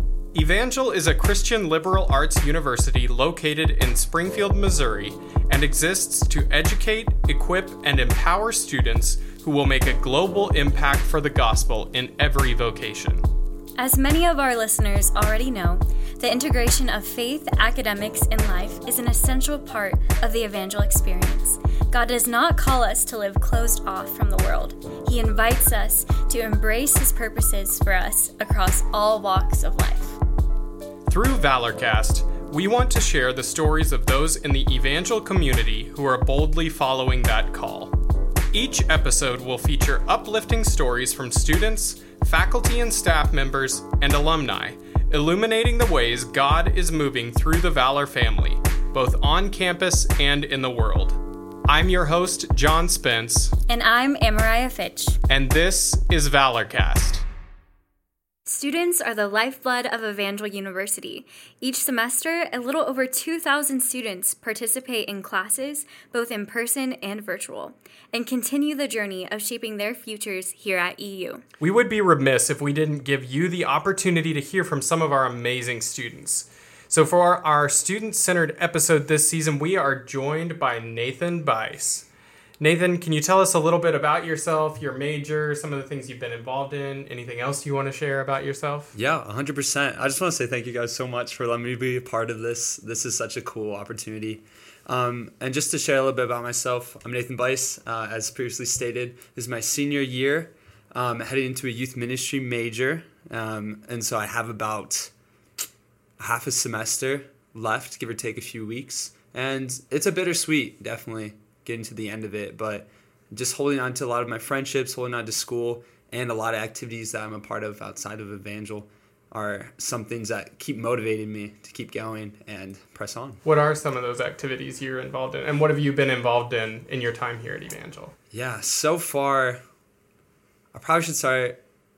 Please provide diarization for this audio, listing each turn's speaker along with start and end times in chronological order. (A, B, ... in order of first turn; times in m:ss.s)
0:00.3-0:13.2 A
0:13.8-0:30.2 B
0:31.1-0:37.9 A
0:38.5-0:53.5 A
0:53.7-0:55.2 B
0:55.3-0:57.2 A
0:58.4-1:11.4 B
1:11.6-1:22.1 A
1:22.6-1:28.9 A
1:28.9-1:45.1 C
1:46.2-2:03.4 C
2:03.4-2:08.1 A
2:08.3-2:09.6 C
2:10.7-2:11.6 C